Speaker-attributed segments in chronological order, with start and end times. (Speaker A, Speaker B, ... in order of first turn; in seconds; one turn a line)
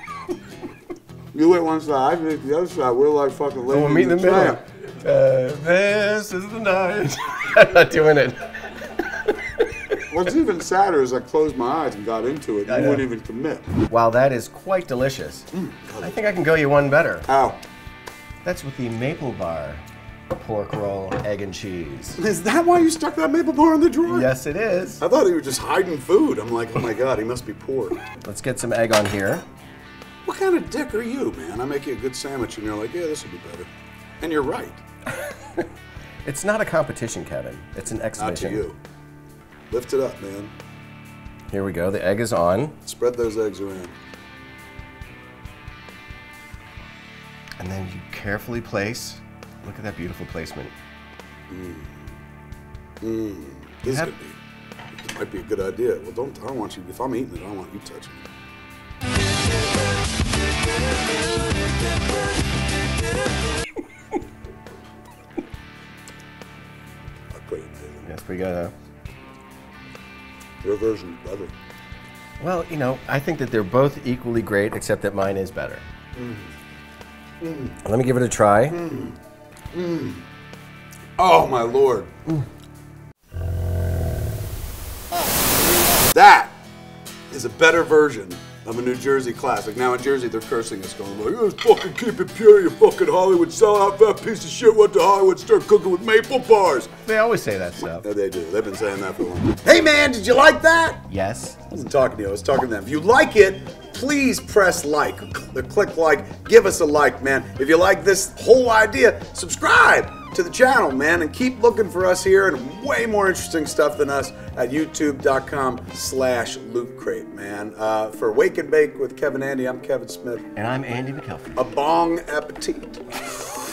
Speaker A: 1.3-4.6
Speaker B: 3.7-8.6
Speaker A: 10.1-13.7
Speaker B: 12.7-13.0
Speaker B: 13.9-15.5
Speaker A: 15.5-16.2
Speaker B: 16.0-17.3
Speaker A: 17.3-17.6
Speaker B: 18.4-22.2
Speaker A: 22.1-24.3
Speaker B: 24.1-25.0
Speaker A: 25.0-28.0
Speaker B: 28.1-29.4
Speaker A: 30.2-34.8
Speaker B: 35.3-35.6
Speaker B: 36.2-38.6
Speaker A: 38.1-38.8
Speaker A: 39.7-40.5
Speaker B: 41.5-42.7
Speaker A: 42.8-43.9
Speaker B: 47.6-50.7
Speaker A: 51.5-52.0
Speaker A: 53.0-54.4
Speaker A: 54.9-58.3
Speaker A: 67.3-68.1
Speaker B: 68.0-68.7
Speaker A: 70.6-71.5
Speaker B: 72.4-75.8
Speaker A: 76.1-76.5
Speaker A: 77.4-77.8
Speaker B: 77.8-78.8
Speaker A: 78.7-79.2
Speaker A: 79.7-80.2
Speaker A: 81.2-82.1
Speaker A: 86.1-86.6
Speaker A: 87.3-96.9
Speaker B: 97.0-98.0
Speaker A: 98.0-101.0
Speaker B: 101.1-101.6
Speaker A: 101.7-120.5
Speaker B: 120.5-121.6
Speaker A: 121.5-123.0